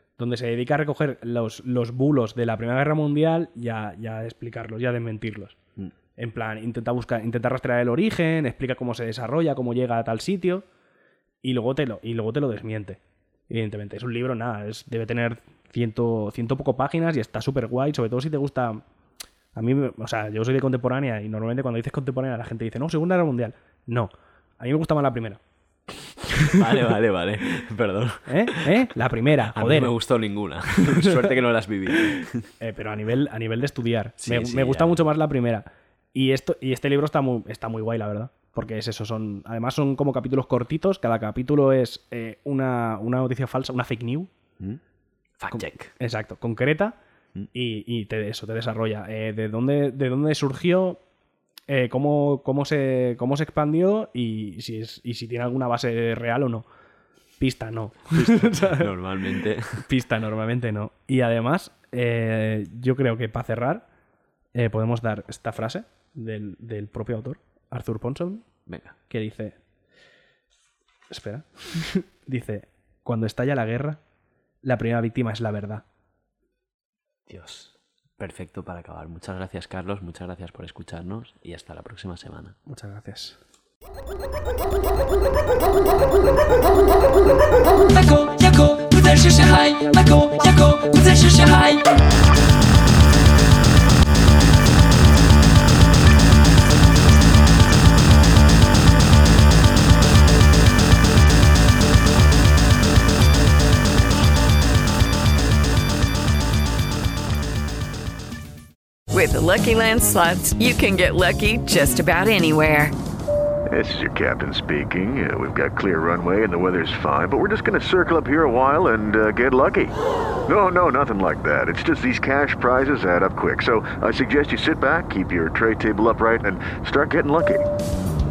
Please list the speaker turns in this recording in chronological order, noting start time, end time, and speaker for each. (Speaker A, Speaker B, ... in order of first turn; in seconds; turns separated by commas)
Speaker A: 0.2-5.6, Speaker A: 6.2-10.7, Speaker A: 11.4-18.8, Speaker A: 19.6-25.4, Speaker A: 26.4-26.8, Speaker B: 26.4-32.5, Speaker A: 28.3-29.9, Speaker A: 30.8-31.3, Speaker A: 31.9-44.3, Speaker B: 34.2-35.0, Speaker B: 45.4-45.9, Speaker A: 45.5-47.0, Speaker A: 47.5-51.0, Speaker A: 51.7-56.7, Speaker A: 57.4-58.9, Speaker B: 58.1-59.9, Speaker A: 59.8-63.9, Speaker A: 64.5-68.5, Speaker B: 68.7-68.9, Speaker A: 69.1-69.6, Speaker A: 71.1-74.0, Speaker A: 74.6-75.8, Speaker B: 77.3-82.6, Speaker A: 82.7-83.4, Speaker B: 87.7-92.1, Speaker C: 109.1-112.9, Speaker D: 113.7-119.9, Speaker D: 120.5-127.6